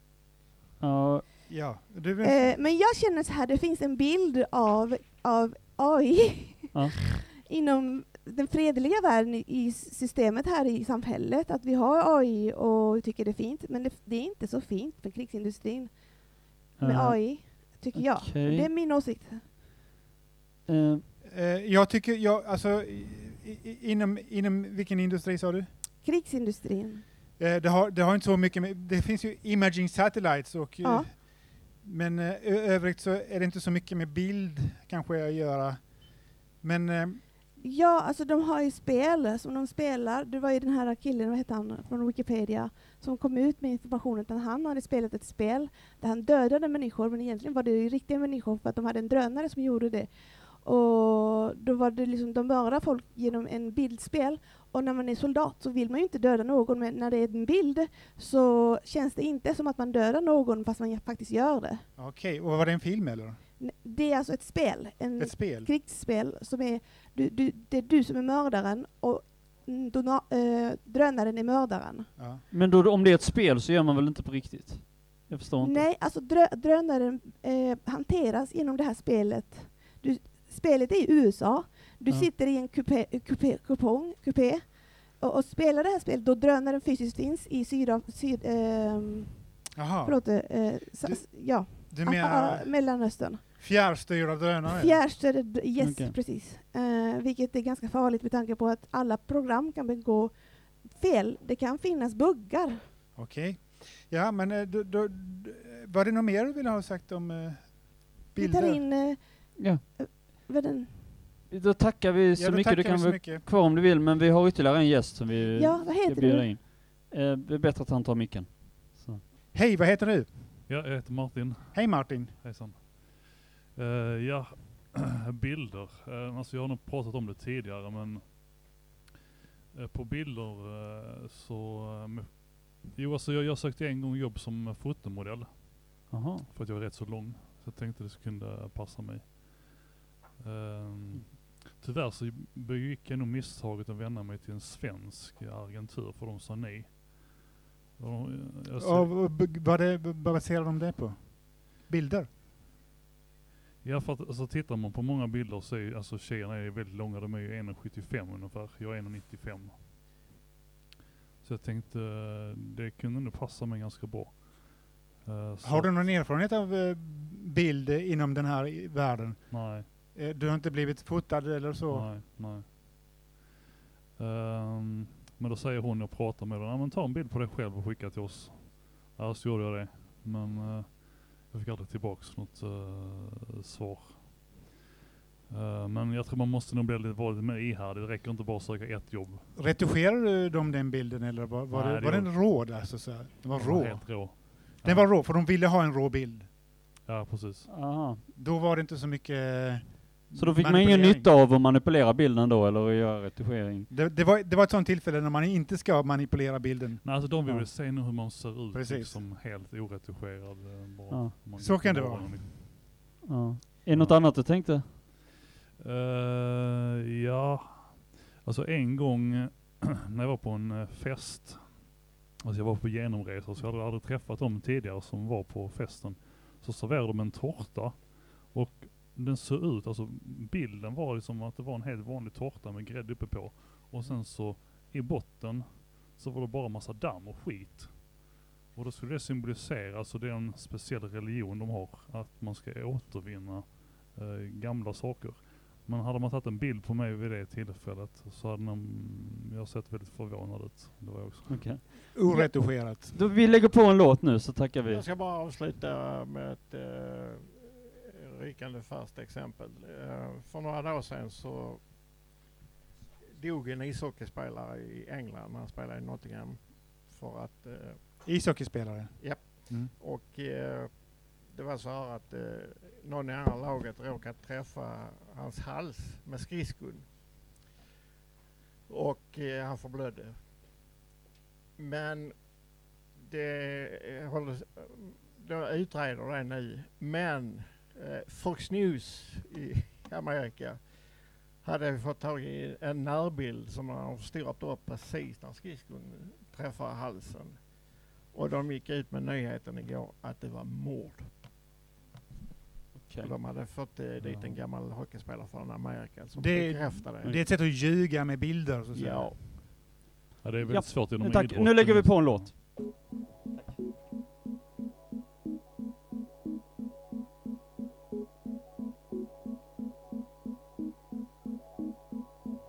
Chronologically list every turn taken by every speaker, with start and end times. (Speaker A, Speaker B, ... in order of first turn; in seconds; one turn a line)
Speaker A: 0.8-1.2
Speaker B: 1.5-2.5
Speaker C: 2.2-19.4
Speaker A: 16.8-18.7
Speaker A: 20.7-21.1
Speaker B: 21.2-25.7
Speaker C: 26.0-27.1
Speaker B: 27.4-37.2
Speaker C: 30.8-31.2
Speaker C: 37.6-61.9
Speaker B: 62.0-63.4
Speaker C: 63.6-72.1
Speaker B: 65.2-65.7
Speaker B: 72.2-72.4
Speaker A: 72.5-75.9
Speaker C: 75.6-93.4
Speaker B: 89.8-94.9
Speaker C: 94.7-102.8
Speaker A: 95.8-96.2
Speaker B: 103.2-108.8
Speaker C: 108.3-111.0
Speaker A: 109.6-109.8
Speaker A: 111.5-119.2
Speaker B: 112.3-113.4
Speaker C: 115.5-116.5
Speaker B: 119.5-120.5
Speaker D: 120.7-128.4
Speaker B: 121.7-122.4
Speaker D: 129.7-139.8
Speaker A: 136.1-136.5
Speaker D: 140.4-147.4
Speaker D: 148.0-149.2
Speaker B: 148.8-152.3
Speaker D: 153.8-159.8
Speaker D: 161.4-166.1
Speaker B: 165.6-172.1
Speaker D: 169.5-169.9
Speaker D: 171.9-172.7
Speaker D: 174.2-184.6
Speaker D: 185.5-189.5
Speaker B: 189.6-196.5
Speaker D: 191.7-195.1
Speaker D: 197.1-197.7
Speaker A: 197.7-198.2
Speaker B: 198.3-201.3
Speaker A: 200.4-203.9
Speaker B: 203.9-208.1
Speaker D: 207.0-212.6
Speaker B: 208.7-209.2
Speaker A: 211.1-211.3
Speaker B: 211.6-212.5
Speaker A: 213.3-214.9
Speaker D: 213.9-214.3
Speaker D: 215.8-251.9
Speaker A: 251.5-255.1
Speaker B: 252.1-253.1
Speaker E: 254.9-261.9
Speaker E: 263.4-268.2
Speaker B: 268.2-269.9
Speaker E: 269.2-277.1
Speaker E: 278.9-280.4
Speaker E: 281.8-301.3
Speaker A: 302.9-303.4
Speaker E: 303.2-307.4
Speaker D: 304.2-304.5
Speaker B: 306.4-309.4
Speaker E: 308.9-309.6
Speaker D: 310.4-312.6
Speaker A: 310.7-312.5